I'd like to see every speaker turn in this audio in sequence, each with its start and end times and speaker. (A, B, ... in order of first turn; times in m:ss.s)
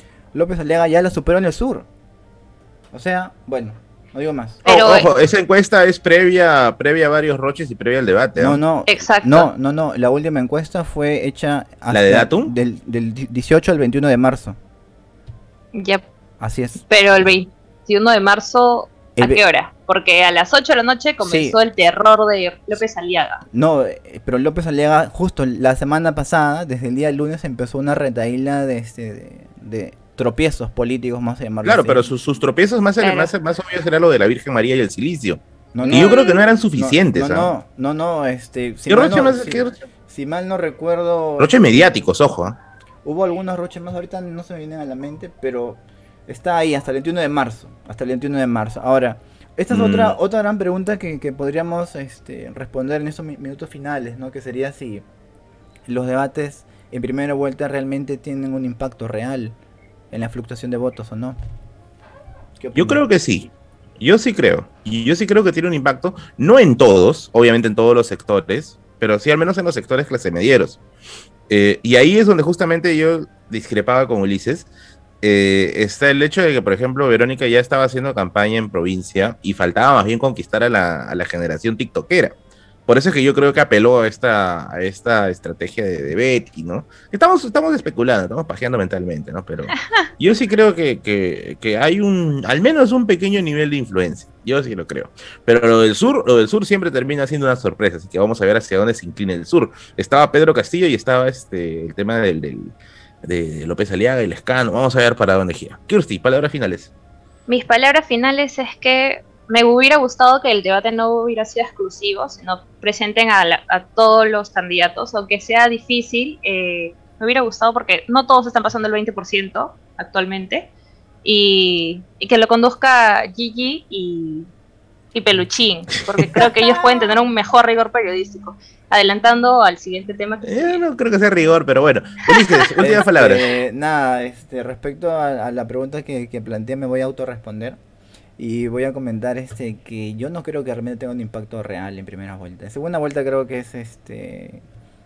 0:00.3-0:01.9 A
0:02.9-0:04.6 A
0:04.6-0:05.1 B
0:04.6-0:08.6 C
0:08.4-0:14.6 A
0:08.9-0:09.5 B
0:11.9-0:12.5 C
0:15.7-0:16.1 B
0:16.4-0:17.3 A
0:16.9-0:23.4 B
0:19.2-0:19.4 A
0:21.2-0:21.6 A
0:23.5-0:32.1 A
0:31.6-0:37.5 C
0:33.0-0:33.3 B
0:35.7-0:42.0 A
0:35.9-0:36.4 B
0:38.9-0:39.8 C
0:41.4-0:42.6 C
0:43.0-0:55.0 A
0:49.7-0:50.2 C
0:55.9-0:59.6 A
1:00.1-1:01.4 A
1:02.6-1:03.0 A
1:02.7-1:10.8 C
1:11.5-1:14.7 C
1:15.2-1:22.3 C
1:22.9-1:46.9 C
1:47.5-2:00.7 B
2:01.2-2:04.5 B
2:05.1-2:10.8 B
2:06.2-2:07.0 C
2:10.4-2:13.5 C
2:12.8-2:17.8 A
2:18.4-2:24.6 A